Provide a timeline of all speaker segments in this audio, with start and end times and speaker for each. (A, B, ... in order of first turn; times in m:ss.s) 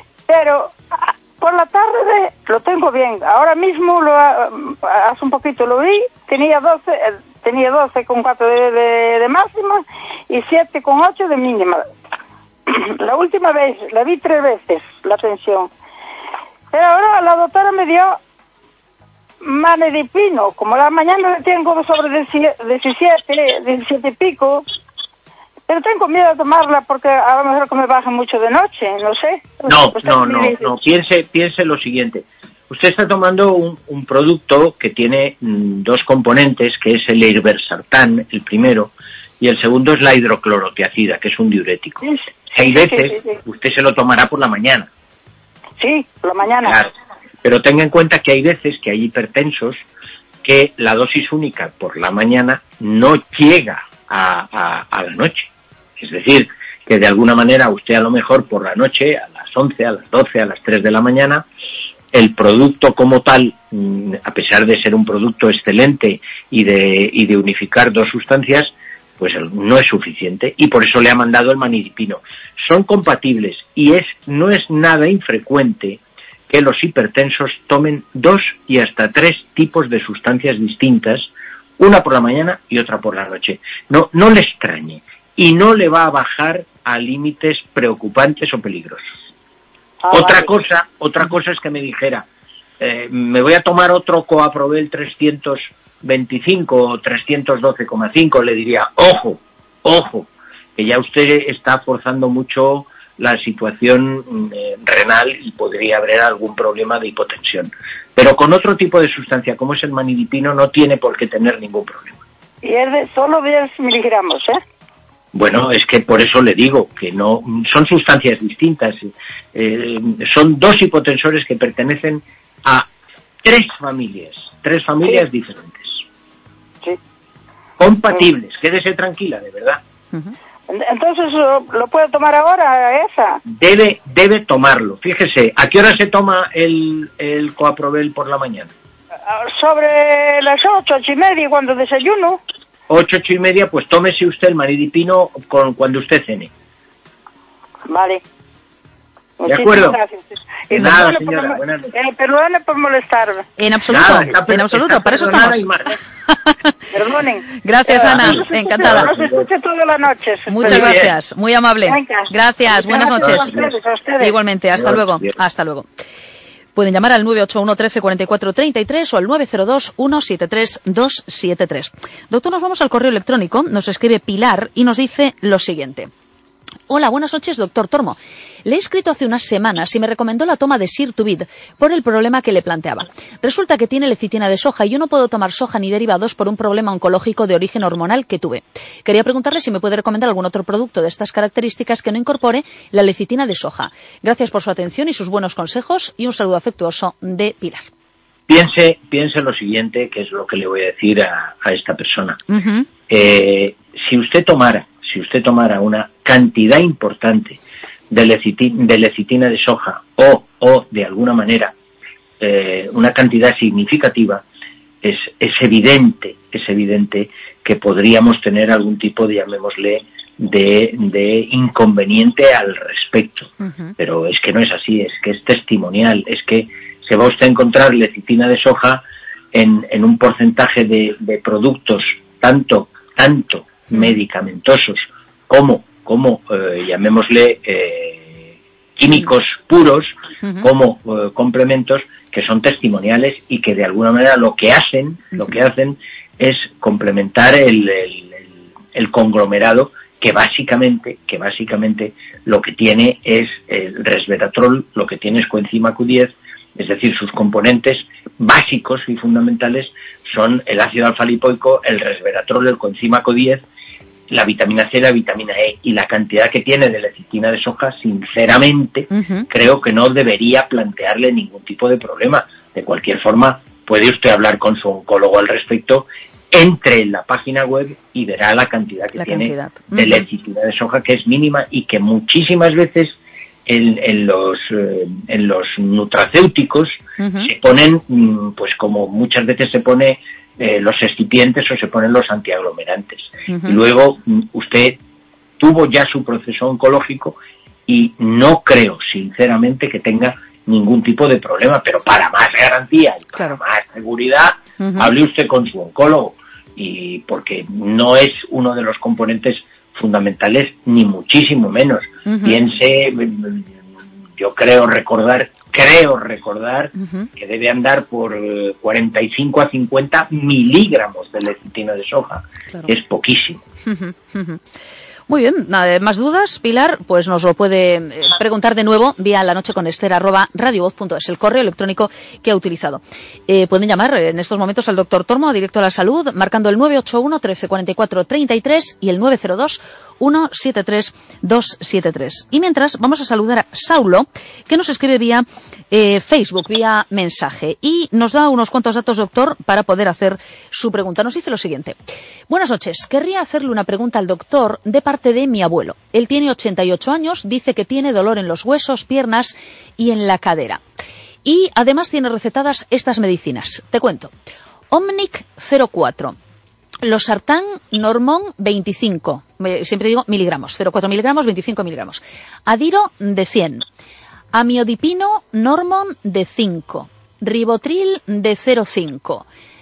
0:00.3-0:11.8 A
0:12.7-0:15.7 A
0:16.7-0:18.2 A
0:19.4-0:24.6 A
0:25.7-0:30.7 A
0:29.7-0:42.0 B
0:42.0-0:43.3 A
0:42.6-0:44.9 B
0:45.8-0:46.8 A
0:46.6-0:46.9 B
0:47.4-0:49.8 B
0:50.4-1:01.4 B
1:02.1-1:29.1 B
1:30.0-1:30.5 A
1:30.1-1:32.2 B
1:32.8-1:52.2 B
1:52.6-1:54.6 A
1:55.3-2:02.9 B
2:03.4-2:06.0 B
2:07.8-2:09.8 B
2:10.7-2:13.4 A
2:13.5-2:18.7 B
2:19.3-2:22.4 A
2:22.9-2:26.5 B
2:27.9-2:28.2 A
2:29.4-2:33.4 A
2:29.5-2:30.0 B
2:30.7-2:31.9 B
2:33.6-2:35.7 C
2:33.9-2:35.9 B
2:36.3-2:36.7 C
2:36.9-2:41.0 A
2:37.6-2:39.1 C
2:38.1-2:39.4 B
2:40.5-2:43.5 C
2:40.6-2:41.0 B
2:41.8-2:44.3 A
2:43.4-2:43.7 B
2:44.2-2:45.9 C
2:44.8-2:45.3 B
2:46.8-2:56.1 C
2:56.9-3:17.8 C
3:18.5-3:22.4 B
3:22.5-3:22.9 C
3:23.1-3:27.6 B
3:28.1-3:31.7 B
3:32.4-3:34.4 B
3:35.0-3:49.0 B
3:43.6-3:43.9 C
3:49.5-4:23.6 B
4:24.3-4:43.1 B
4:29.1-4:29.5 C
4:39.1-4:40.2 C
4:43.7-4:55.0 B
4:47.2-4:47.5 C
4:53.5-4:53.8 C
4:55.6-4:57.4 B
4:57.9-5:13.7 B
5:04.8-5:05.1 C
5:12.2-5:12.6 C
5:14.4-5:23.6 B
5:17.0-5:17.3 C
5:23.8-5:24.6 C
5:25.3-5:52.0 C
5:52.5-6:00.8 C
6:01.4-6:04.3 C
6:04.9-6:06.4 C
6:07.0-6:13.8 C
6:14.5-6:19.4 C